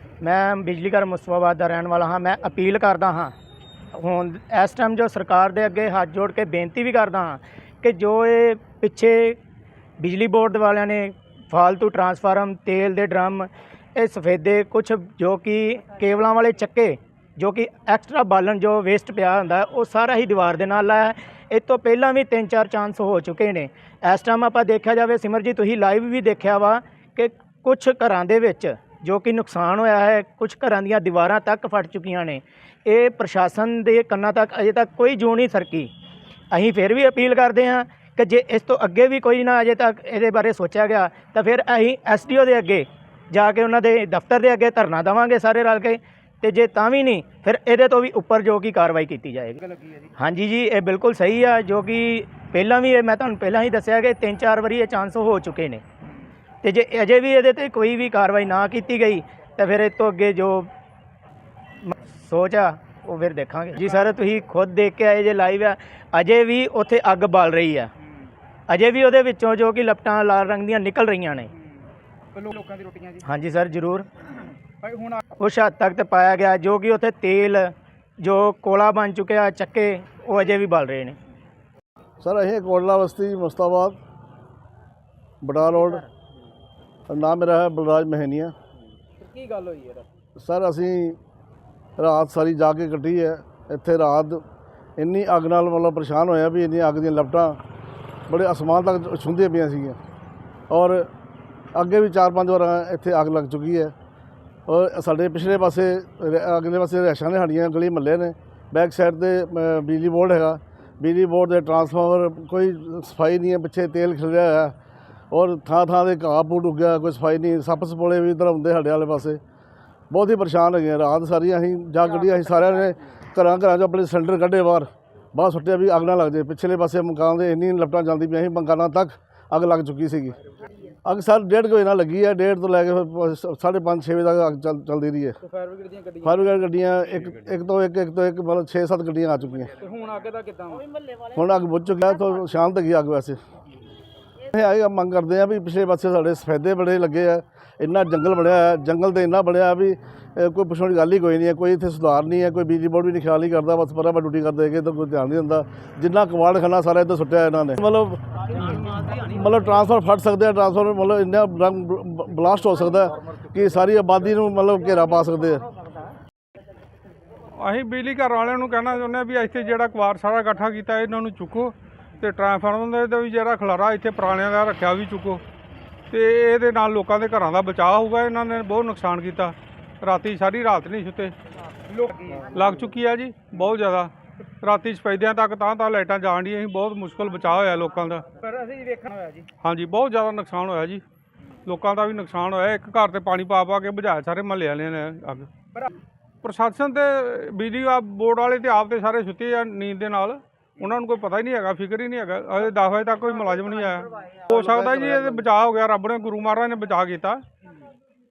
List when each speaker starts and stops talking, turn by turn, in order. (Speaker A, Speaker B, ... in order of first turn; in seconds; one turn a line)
Speaker A: 0.2-3.3
Speaker A: 3.9-9.4
Speaker A: 10.0-35.9
Speaker A: 36.5-55.8
Speaker B: 49.7-50.1
Speaker A: 56.6-60.7
Speaker A: 61.8-67.9
Speaker A: 68.7-71.5
Speaker B: 72.3-73.2
Speaker A: 73.2-74.1
Speaker B: 74.8-75.2
Speaker A: 75.3-81.2
Speaker C: 82.2-84.0
Speaker C: 85.4-86.0
Speaker C: 87.1-88.5
Speaker B: 89.1-90.1
Speaker C: 90.4-91.2
Speaker C: 92.0-94.4
Speaker C: 95.0-97.6
Speaker C: 98.3-100.0
Speaker C: 100.7-101.1
Speaker C: 101.7-103.9
Speaker C: 104.7-114.8
Speaker C: 115.3-119.4
Speaker C: 120.1-130.4
Speaker C: 131.0-135.4
Speaker B: 135.5-136.4
Speaker C: 136.2-139.8
Speaker B: 139.8-141.1
Speaker C: 141.3-143.4
Speaker C: 144.5-165.7
Speaker D: 167.6-175.4
Speaker D: 176.1-181.3
Speaker B: 181.9-182.5
Speaker D: 182.4-188.2
Speaker B: 188.4-189.5
Speaker D: 189.6-191.0
Speaker D: 191.7-195.5
Speaker D: 196.4-207.4